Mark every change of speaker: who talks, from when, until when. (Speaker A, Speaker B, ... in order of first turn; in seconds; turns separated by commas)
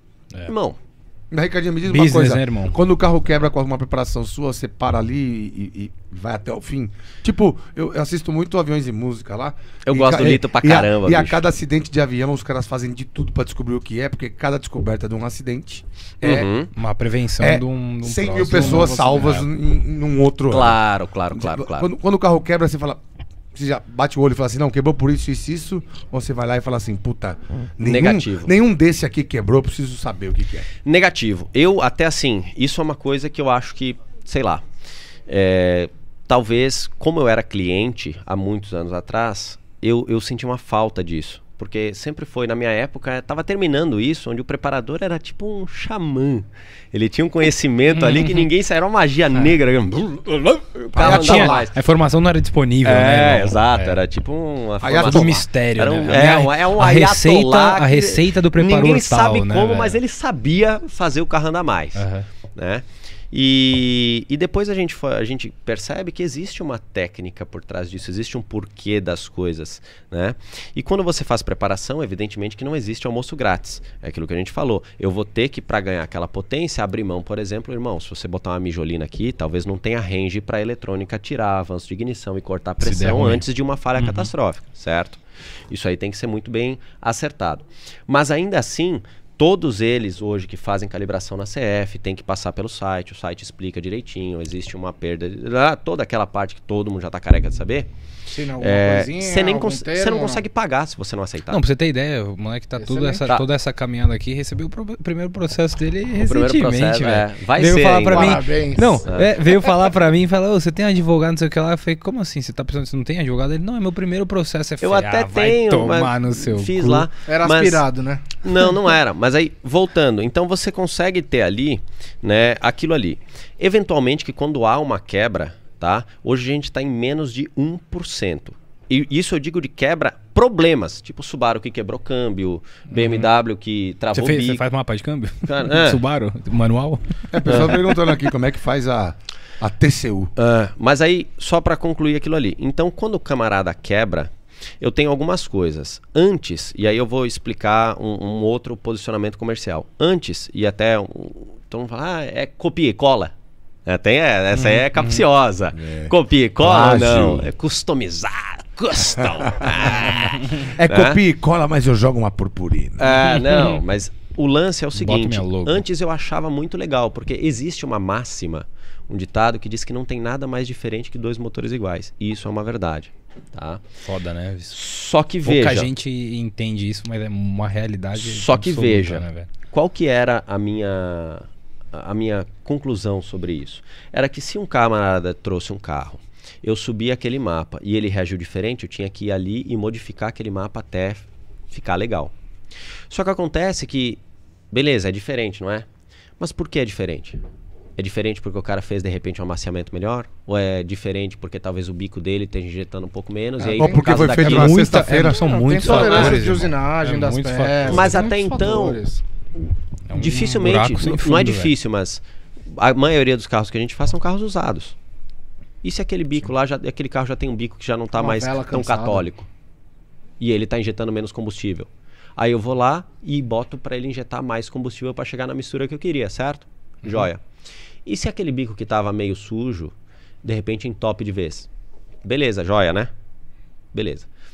Speaker A: 0.5-0.8, Speaker B: 1.3-16.5, Speaker C: 1.9-2.8, Speaker A: 9.9-11.4, Speaker A: 16.2-16.7, Speaker C: 16.8-19.4, Speaker B: 17.4-20.8, Speaker D: 18.5-19.4, Speaker A: 20.5-21.9, Speaker B: 21.3-23.0, Speaker B: 23.5-30.7, Speaker A: 27.8-28.6, Speaker A: 30.8-34.6, Speaker A: 35.3-51.7, Speaker C: 47.9-48.5, Speaker B: 50.9-51.7, Speaker C: 51.0-54.0, Speaker A: 52.8-97.9, Speaker B: 54.8-55.5, Speaker C: 55.0-60.0, Speaker C: 62.0-62.3, Speaker C: 82.8-83.4, Speaker C: 84.0-84.3, Speaker D: 98.3-100.4, Speaker A: 98.6-101.6, Speaker C: 101.5-117.1, Speaker D: 102.8-103.2, Speaker A: 106.2-108.4, Speaker D: 108.1-109.1, Speaker A: 109.1-109.3, Speaker A: 114.8-117.8, Speaker D: 117.3-118.7, Speaker A: 118.4-134.7, Speaker C: 132.9-133.3, Speaker C: 134.1-137.9, Speaker A: 135.5-136.0, Speaker B: 137.3-140.3, Speaker A: 137.5-137.8, Speaker A: 140.4-153.3, Speaker A: 153.9-161.2, Speaker C: 154.5-155.2, Speaker B: 155.7-157.5, Speaker B: 159.2-159.8, Speaker B: 160.5-163.1, Speaker A: 163.0-173.8, Speaker C: 163.3-163.7, Speaker C: 165.0-165.8, Speaker C: 174.0-174.8, Speaker A: 174.7-175.9, Speaker C: 175.4-179.5, Speaker A: 178.2-192.3, Speaker A: 193.1-194.2, Speaker A: 194.7-195.9, Speaker A: 196.4-197.4, Speaker A: 198.0-204.8, Speaker B: 203.6-206.6, Speaker C: 203.8-208.2, Speaker D: 205.3-209.2, Speaker A: 205.9-206.3, Speaker A: 207.9-209.0, Speaker A: 209.6-215.0, Speaker C: 210.1-211.7, Speaker A: 215.8-219.5, Speaker D: 218.2-219.3, Speaker A: 220.4-227.4, Speaker A: 228.1-231.7, Speaker A: 232.2-233.1, Speaker A: 233.9-234.3